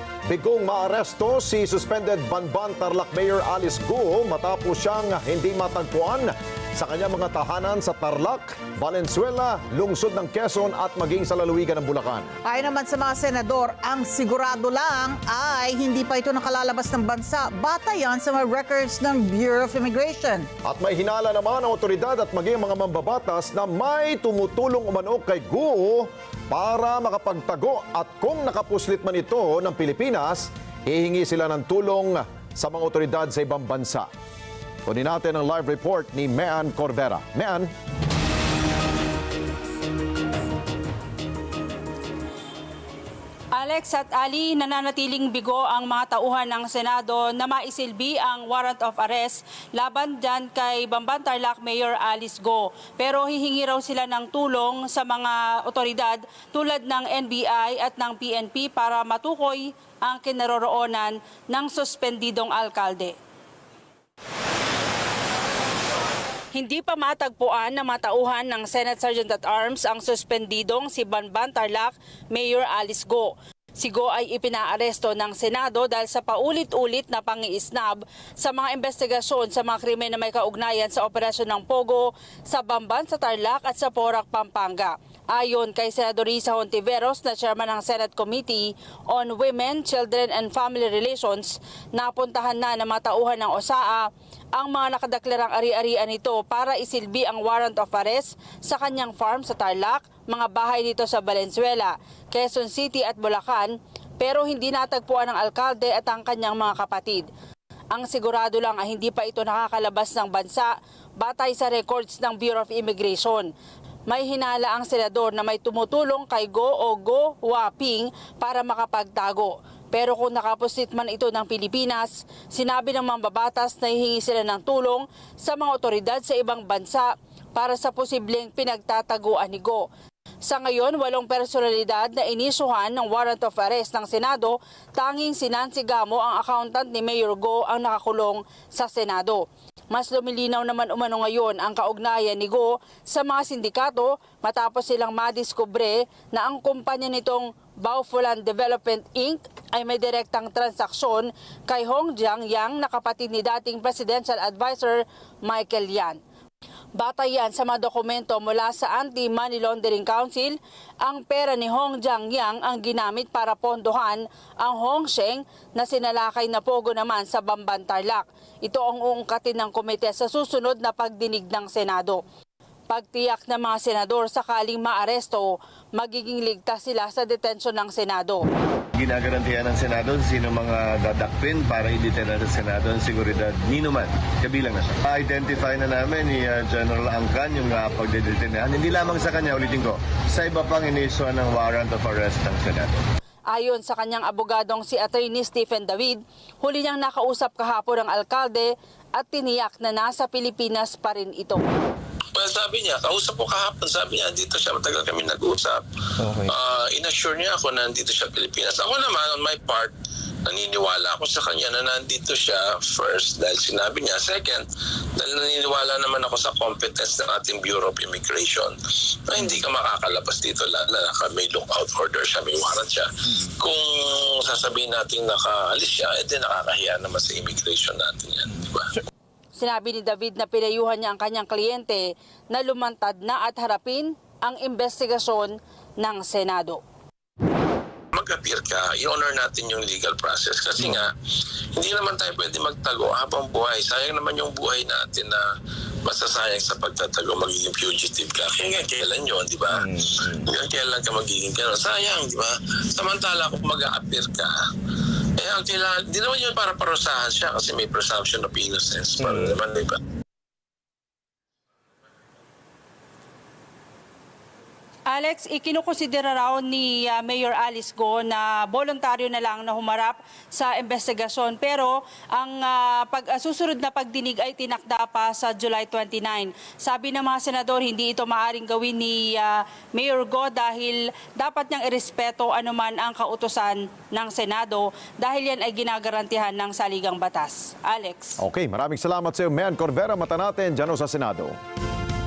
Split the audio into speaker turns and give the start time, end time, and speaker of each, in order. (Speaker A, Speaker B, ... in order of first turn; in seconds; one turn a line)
Speaker A: 0.3-12.4
Speaker B: 12.4-20.5
Speaker A: 20.6-34.1
Speaker A: 34.9-37.7
Speaker C: 43.5-63.1
Speaker C: 66.5-107.3
Speaker C: 107.9-113.5
Speaker C: 114.1-129.8
Speaker C: 130.4-156.2
Speaker C: 156.9-172.2
Speaker C: 172.9-178.4
Speaker D: 178.9-192.9
Speaker C: 193.5-201.6
Speaker E: 202.3-205.8
Speaker E: 206.3-209.9
Speaker E: 210.4-228.9
Speaker C: 229.5-236.8
Speaker E: 238.1-241.1
Speaker E: 241.8-245.4
Speaker E: 246.0-254.5
Speaker E: 255.4-260.0
Speaker C: 265.1-288.4
Speaker A: 288.4-291.6